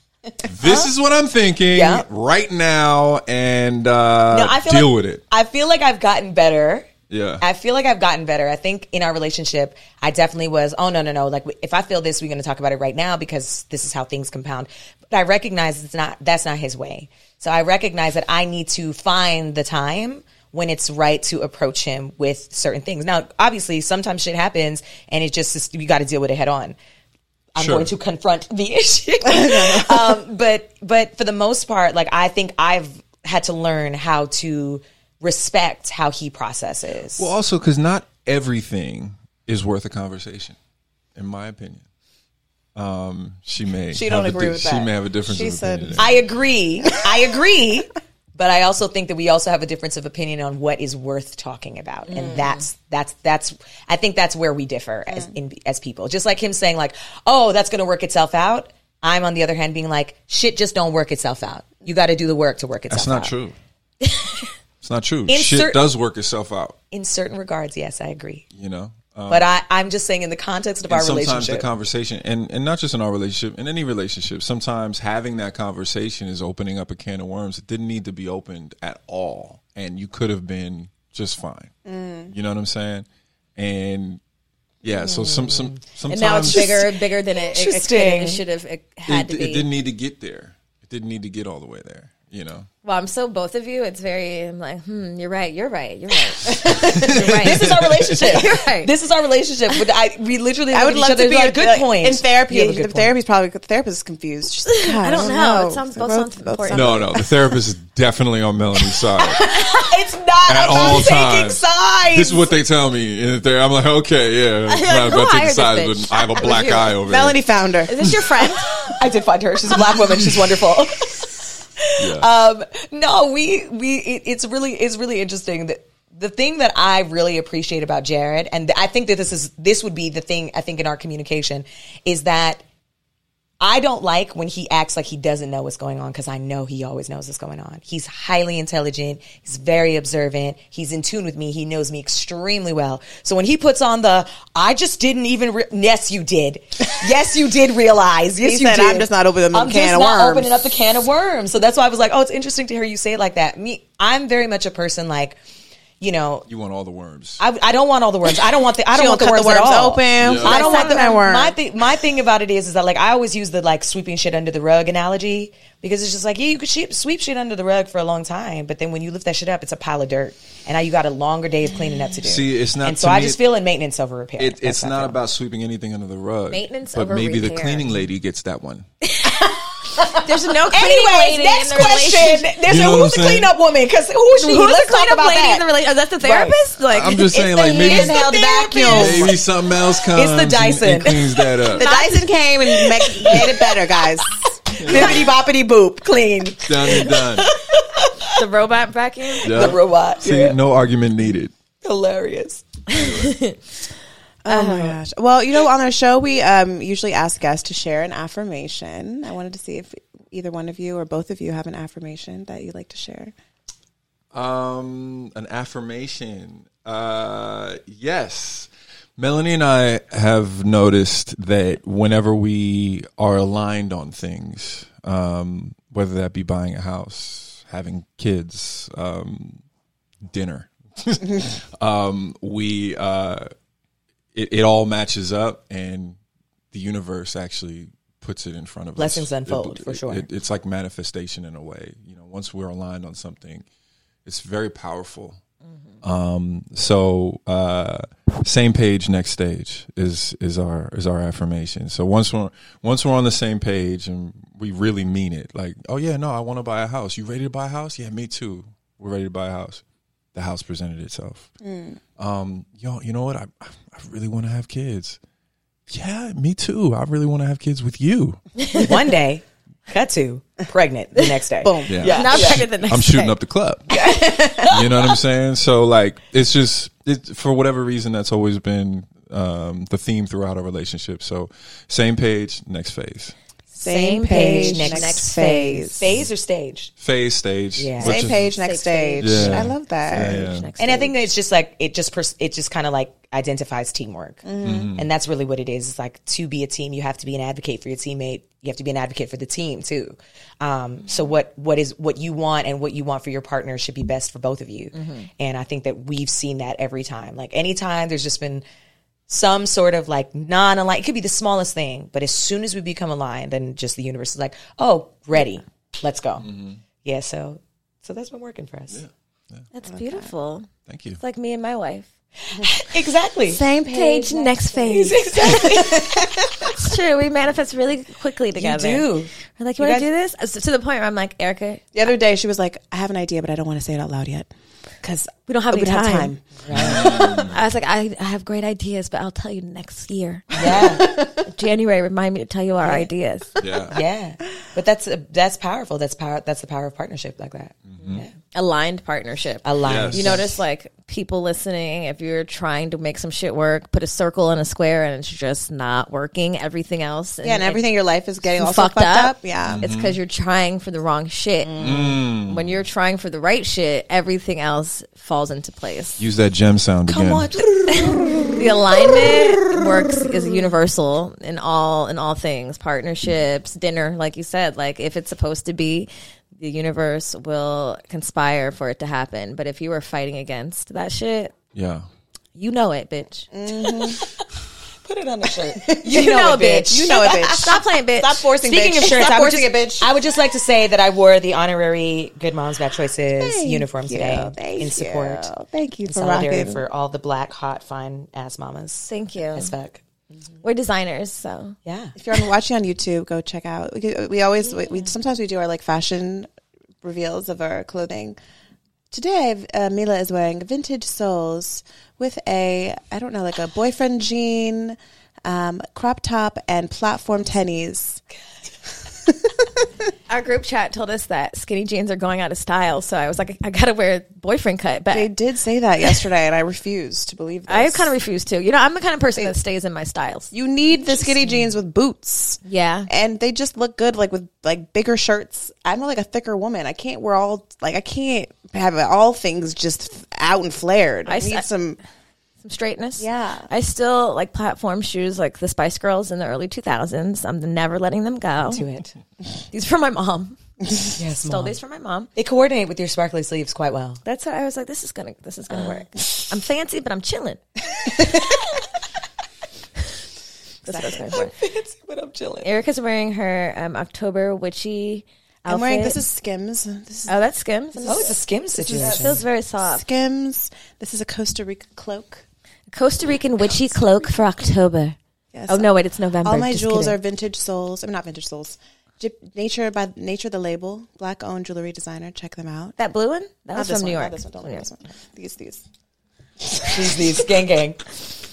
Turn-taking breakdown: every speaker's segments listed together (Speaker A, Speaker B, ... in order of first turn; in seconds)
Speaker A: 0.4-5.2, 7.1-7.4, 27.6-27.9, 37.2-40.6, 41.2-41.9, 42.8-46.2, 62.9-63.5, 64.8-66.8, 68.5-69.5, 70.9-81.7, 82.3-84.2, 84.8-86.8, 89.1-92.7, 96.6-98.4, 106.7-109.5, 110.5-117.4, 122.0-122.3, 156.5-157.4, 160.2-160.6, 172.2-173.4, 174.4-178.9, 182.7-183.5, 186.9-188.2, 188.9-191.8, 194.8-195.3, 196.7-197.5, 199.4-201.5, 202.9-203.4, 214.3-229.6, 230.3-233.5, 234.3-236.2, 236.7-243.7, 244.2-245.4, 246.0-259.8, 260.4-261.5, 262.2-265.2, 265.9-268.4, 271.9-273.8, 274.7-283.4, 287.0-288.5, 289.2-290.7, 294.6-295.1, 316.4-316.8, 318.9-319.7, 320.9-321.2, 336.7-337.6, 343.6-344.0, 347.9-348.2, 349.8-350.6, 359.6-360.2, 361.8-362.7, 366.2-367.5, 381.8-382.1
Speaker B: 1.7-2.1, 4.3-26.8, 27.6-37.3, 46.0-63.3, 65.3-65.8, 66.9-68.5, 69.3-71.7, 85.0-86.9, 87.5-88.4, 96.5-103.1, 109.2-112.5, 118.9-132.6, 133.6-155.4, 156.0-156.5, 157.4-175.2, 179.4-185.7, 186.2-186.6, 187.5-189.3, 190.1-192.1, 193.0-193.7, 194.7-198.4, 199.4-200.6, 201.8-202.8, 239.0-240.3, 268.7-272.7, 273.9-274.9, 284.3-285.3, 285.9-286.9, 287.8-288.2, 290.8-308.6, 309.3-316.5, 317.0-319.0, 322.5-323.6, 324.9-326.7, 328.6-330.1, 336.6-337.3, 340.5-341.1, 343.9-348.3, 349.6-350.6, 367.1-368.6, 383.9-384.3, 385.0-387.8, 388.6-395.5, 396.1-400.0, 401.9-402.2, 448.6-449.1, 451.2-451.8, 452.4-454.2, 461.3-462.7, 468.0-469.4, 486.9-488.0
Speaker C: 29.2-29.9, 43.9-46.2, 81.8-82.3, 100.7-107.3, 117.0-118.3, 148.4-150.7, 158.9-161.6, 187.7-189.3, 191.7-195.2, 204.4-213.3, 261.6-262.0, 271.6-272.6, 283.8-286.1, 288.0-290.4, 294.4-295.0, 319.9-320.3, 323.5-325.8, 331.9-334.5, 335.0-336.5, 341.0-341.4, 357.4-359.9, 383.5-384.2, 385.8-386.3, 386.9-390.1, 393.4-396.8, 402.2-406.5, 407.0-408.4, 409.1-418.2, 419.3-419.8, 425.1-428.1, 430.5-442.0, 443.2-443.7, 460.9-461.3, 465.7-467.4, 467.9-472.4, 475.5-483.0, 483.7-485.9
Speaker D: 52.1-52.6, 86.1-89.7, 92.8-98.9, 104.8-107.2, 114.7-117.0, 117.9-118.9, 160.4-161.1, 176.5-177.9, 179.2-182.6, 184.4-188.5, 198.2-199.8, 202.9-203.6, 204.5-205.0, 268.6-268.9, 272.0-273.4, 283.8-286.0, 288.3-291.3, 304.9-305.3, 319.7-320.7, 321.2-322.1, 323.9-326.0, 326.7-331.8, 335.5-343.6, 348.4-357.9, 358.4-366.2, 368.0-381.5, 382.6-383.5, 386.1-388.5, 399.1-399.7, 400.6-401.8, 420.3-425.3, 427.7-430.5, 432.6-433.1, 441.3-441.7, 442.6-448.9, 449.7-450.6, 451.2-452.3, 454.2-458.6, 460.8-461.5, 462.6-466.2, 467.3-468.3, 468.9-470.1, 472.9-475.2, 475.7-477.2, 483.0-484.9